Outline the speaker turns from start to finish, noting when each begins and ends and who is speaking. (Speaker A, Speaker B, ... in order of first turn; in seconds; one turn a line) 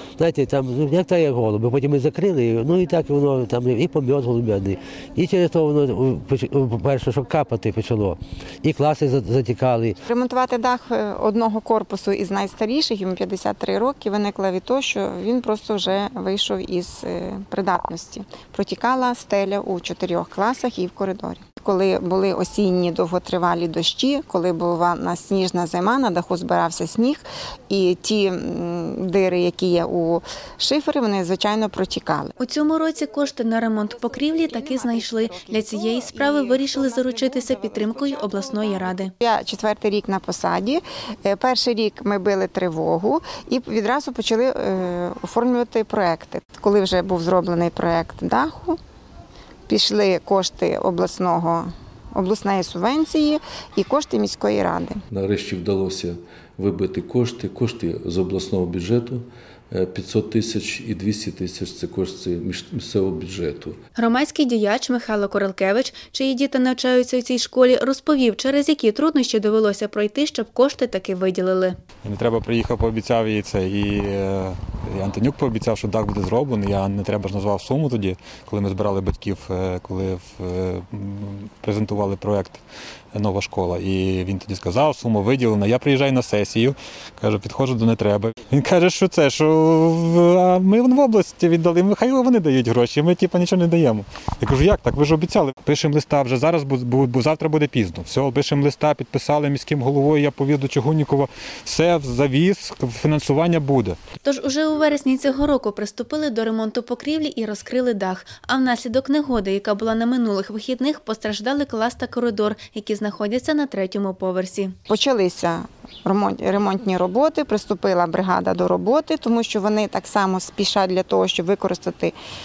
Speaker A: 0.2-9.9
Speaker B: 10.1-32.3
Speaker C: 32.4-39.1
Speaker B: 34.5-48.8
Speaker B: 49.7-55.0
Speaker D: 55.1-63.8
Speaker C: 64.0-71.8
Speaker E: 72.0-82.6
Speaker E: 83.1-104.0
Speaker C: 104.2-114.7
Speaker B: 114.9-122.2